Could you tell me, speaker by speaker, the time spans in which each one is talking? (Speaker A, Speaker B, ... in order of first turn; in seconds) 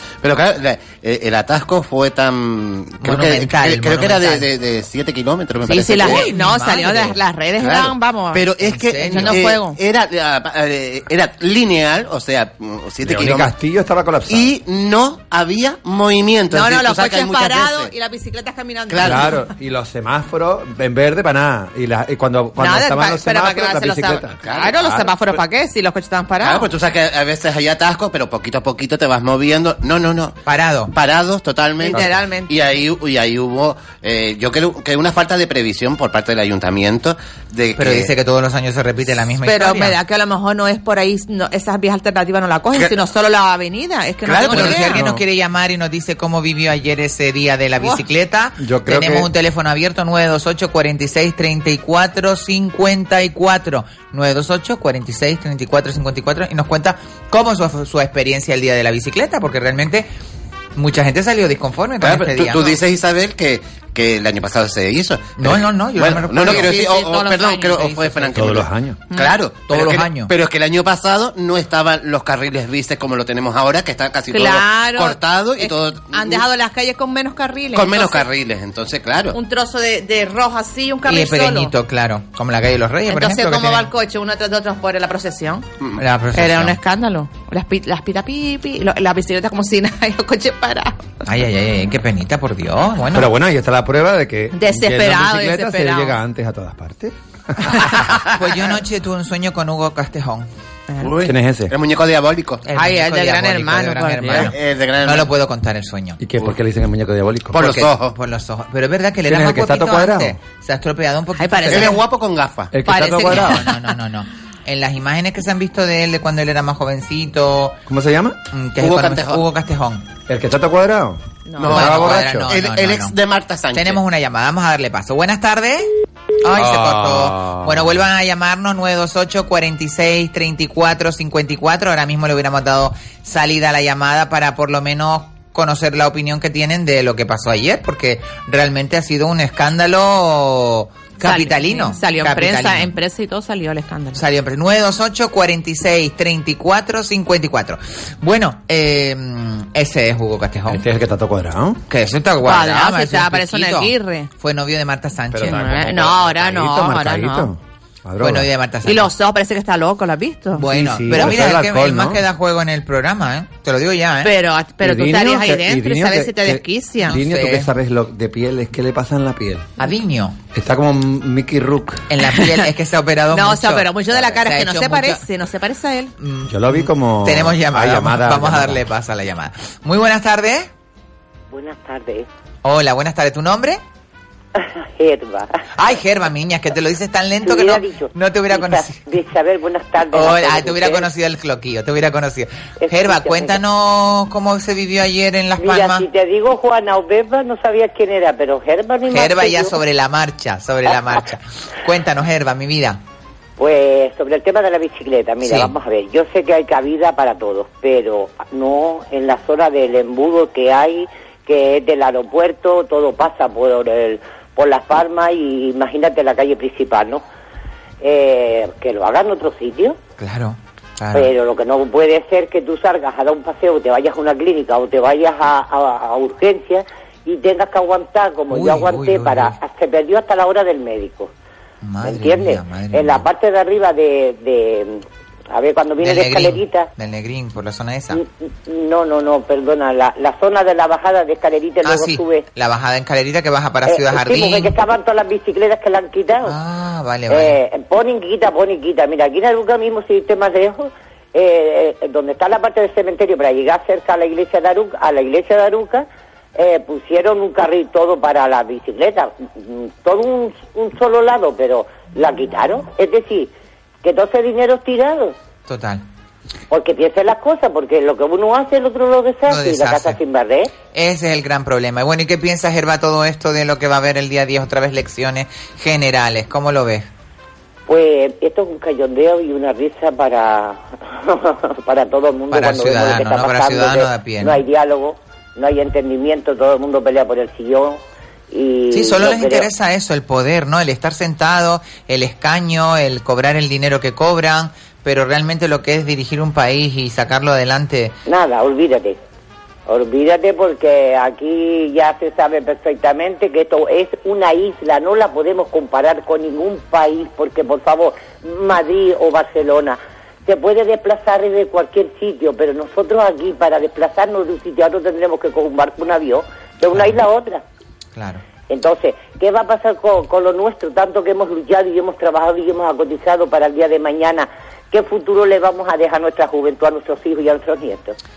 Speaker A: 0.2-6.3, 7.6-13.5, 14.3-17.9, 18.9-19.3, 24.4-24.8, 26.4-30.4, 30.9-38.1, 44.3-45.0, 62.0-76.4, 77.7-79.4, 101.0-102.7, 104.3-105.3, 107.5-108.2, 111.7-112.7, 118.8-119.4, 121.6-124.0
Speaker B: 3.0-4.5, 6.0-7.2, 8.6-9.4, 30.5-30.9, 37.8-40.0, 44.4-60.1, 60.8-62.8, 65.4-66.8, 67.9-68.2, 69.7-70.3, 81.1-83.9, 86.0-86.8, 91.2-93.3, 98.2-100.5, 102.7-106.2, 107.6-112.0, 113.2-117.8, 118.5-120.0, 121.7-123.1, 123.7-125.9, 126.4-142.9, 144.1-150.8, 151.9-155.8, 158.2-159.1, 160.5-164.3, 167.1-167.7, 169.8-170.4, 172.1-175.2, 176.2-180.7, 182.6-183.8, 185.8-189.0, 190.1-196.1, 199.1-203.0, 205.4-205.7, 220.2-221.3, 228.5-229.6, 231.8-233.3, 236.0-238.2, 241.8-244.7, 246.5-247.6, 265.7-266.0, 269.5-270.2, 270.9-277.1, 282.5-284.6, 288.9-298.1, 316.9-317.2, 318.1-318.4
Speaker C: 5.7-8.5, 9.0-9.8, 16.5-19.4, 22.6-26.7, 31.8-32.5, 39.4-45.0, 66.4-68.1, 69.1-69.4, 74.3-78.3, 79.3-81.7, 83.1-85.7, 86.3-91.0, 94.5-96.2, 102.8-104.5, 111.4-112.0, 112.9-113.7, 121.5-121.9, 141.2-144.2, 152.4-154.3, 155.4-157.5, 158.8-160.6, 164.2-167.2, 172.3-172.7, 173.3-176.1
Speaker D: 13.0-14.5, 19.0-25.2, 44.7-45.2, 48.6-49.3, 68.3-69.0, 93.1-98.0, 101.2-101.7, 106.2-107.6, 109.3-110.4, 112.7-113.7, 117.9-118.4, 120.3-122.5, 126.5-128.0, 150.7-151.8, 155.3-158.5, 160.7-162.2, 164.8-169.7, 170.5-172.1, 176.5-178.8
Speaker E: 181.5-182.3, 184.6-185.6, 187.4-191.1, 192.8-193.6, 195.6-199.8, 203.6-217.2, 218.0-220.0, 221.1-231.3, 232.0-236.9, 238.1-242.4, 243.9-246.6, 247.3-263.5, 264.0-265.4, 266.7-270.7, 277.9-289.7, 298.3-299.2, 299.9-317.6, 318.7-328.2